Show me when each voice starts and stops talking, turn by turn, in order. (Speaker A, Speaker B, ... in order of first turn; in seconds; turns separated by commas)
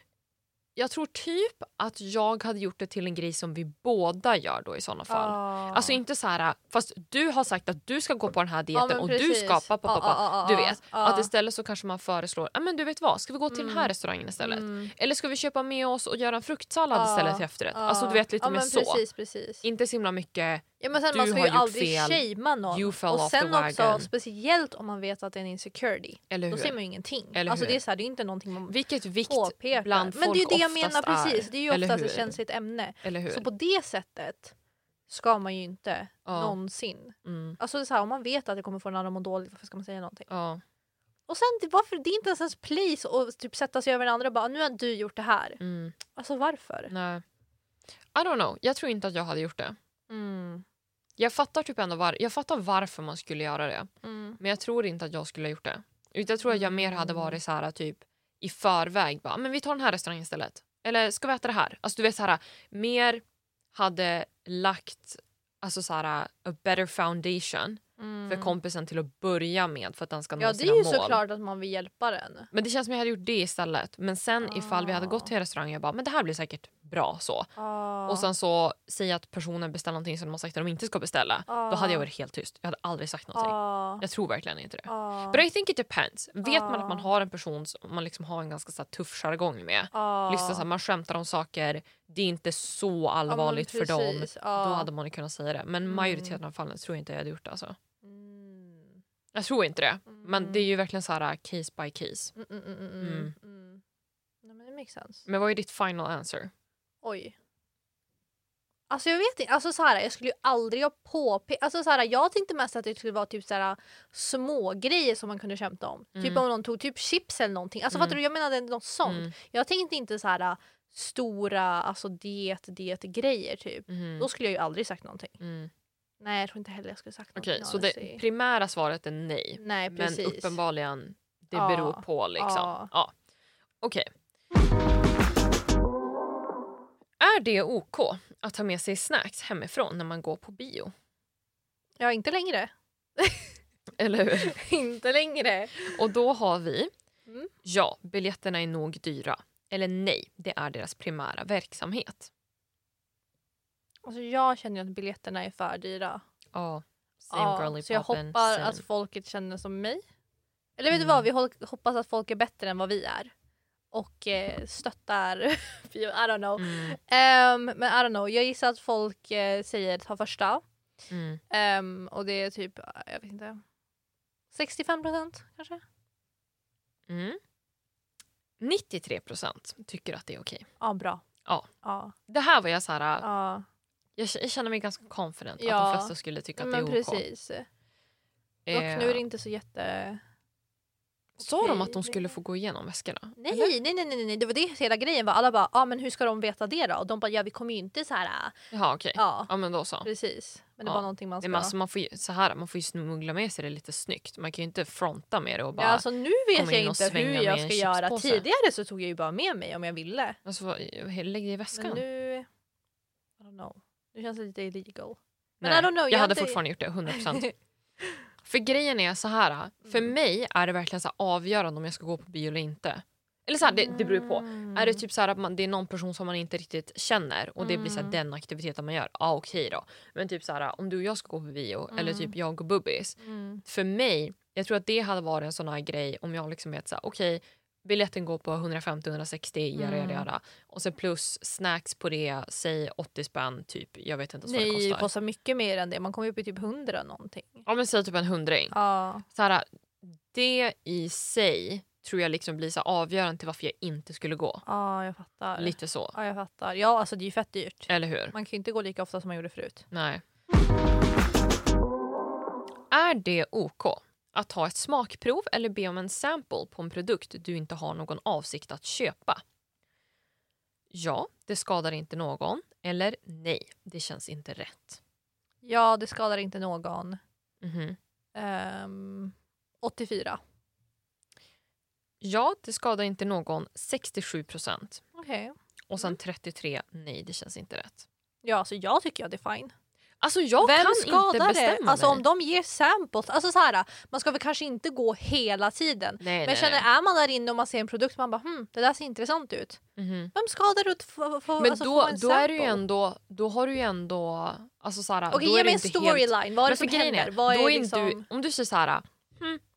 Speaker A: 0.8-19.0, Speaker B: 5.1-6.0, Speaker B: 8.7-11.3, Speaker B: 13.5-14.9, Speaker B: 16.9-19.6, Speaker A: 19.6-24.1, Speaker B: 20.8-28.8, Speaker A: 26.3-26.8, Speaker A: 27.3-27.8, Speaker A: 28.7-32.4, Speaker B: 29.3-34.5, Speaker A: 33.0-33.5, Speaker B: 35.1-40.3, Speaker A: 36.2-36.5, Speaker A: 37.2-37.6, Speaker A: 40.3-40.6, Speaker B: 41.3-45.6, Speaker A: 45.6-46.0, Speaker B: 46.1-46.9, Speaker A: 46.9-47.2, Speaker A: 48.1-49.8, Speaker B: 50.1-50.6, Speaker A: 51.2-63.2, Speaker B: 54.0-54.4, Speaker B: 56.5-57.4, Speaker A: 63.7-71.2, Speaker B: 68.0-68.5, Speaker B: 70.4-72.5, Speaker A: 72.5-77.5, Speaker B: 74.4-75.3, Speaker B: 77.6-78.3, Speaker A: 78.0-97.8, Speaker B: 81.5-82.1, Speaker B: 83.3-84.0, Speaker B: 84.9-85.4, Speaker B: 86.4-87.1, Speaker B: 89.9-90.7, Speaker B: 93.3-94.9, Speaker B: 95.8-96.4, Speaker B: 98.0-99.0, Speaker A: 99.3-102.3, Speaker B: 100.1-100.7, Speaker B: 102.3-103.8, Speaker A: 103.0-103.3, Speaker B: 104.4-105.2, Speaker A: 105.2-106.5, Speaker B: 107.0-107.3, Speaker B: 108.9-125.4, Speaker A: 116.2-116.4, Speaker A: 117.9-118.2, Speaker A: 119.0-119.3, Speaker A: 123.9-124.3, Speaker A: 125.4-125.7, Speaker B: 126.2-128.2, Speaker A: 127.3-133.1, Speaker B: 129.6-130.6, Speaker B: 131.5-132.9, Speaker A: 133.8-134.1, Speaker A: 137.2-140.9, Speaker B: 142.0-143.5, Speaker A: 144.0-144.6, Speaker B: 144.3-146.0, Speaker A: 145.8-146.9, Speaker A: 147.6-152.3, Speaker B: 154.0-156.2, Speaker A: 156.5-158.8, Speaker B: 157.3-160.0, Speaker B: 160.8-163.3, Speaker A: 160.9-161.2, Speaker B: 163.9-170.6, Speaker A: 166.6-167.0, Speaker A: 171.1-171.4, Speaker B: 171.5-173.6, Speaker B: 174.5-175.8, Speaker A: 177.1-177.4, Speaker A: 178.6-180.7, Speaker B: 180.8-181.2, Speaker B: 181.8-182.1, Speaker A: 182.3-183.2, Speaker B: 183.2-183.6, Speaker A: 184.2-187.2, Speaker B: 185.6-187.7, Speaker A: 188.7-189.2, Speaker B: 188.7-190.2, Speaker A: 191.4-193.7, Speaker B: 191.4-192.2, Speaker B: 193.4-198.5, Speaker A: 198.7-200.1, Speaker B: 199.2-199.5, Speaker B: 200.0-201.7, Speaker A: 200.8-208.4, Speaker B: 205.8-210.4, Speaker A: 210.4-212.0, Speaker B: 211.7-212.5, Speaker B: 213.4-217.5, Speaker A: 215.6-217.5, Speaker A: 218.4-245.1, Speaker B: 219.8-220.1, Speaker B: 223.6-225.0, Speaker B: 227.6-228.2, Speaker B: 231.9-232.3, Speaker B: 233.2-233.6, Speaker B: 239.8-240.3, Speaker B: 244.4-247.6, Speaker A: 247.7-248.7, Speaker B: 248.7-249.2, Speaker A: 249.3-254.6, Speaker B: 254.6-259.9, Speaker A: 255.6-256.1, Speaker A: 257.9-258.3, Speaker A: 259.9-260.2, Speaker A: 262.9-269.4, Speaker A: 270.9-275.0, Speaker B: 275.6-277.2, Speaker A: 277.6-278.0, Speaker B: 278.3-280.4, Speaker A: 282.2-285.0, Speaker B: 285.1-286.2, Speaker A: 285.9-288.1, Speaker B: 288.4-289.7, Speaker A: 290.2-292.2, Speaker B: 290.6-299.8, Speaker A: 296.2-296.8, Speaker A: 300.0-300.3, Speaker B: 300.3-302.8, Speaker A: 301.6-309.6, Speaker B: 305.3-308.2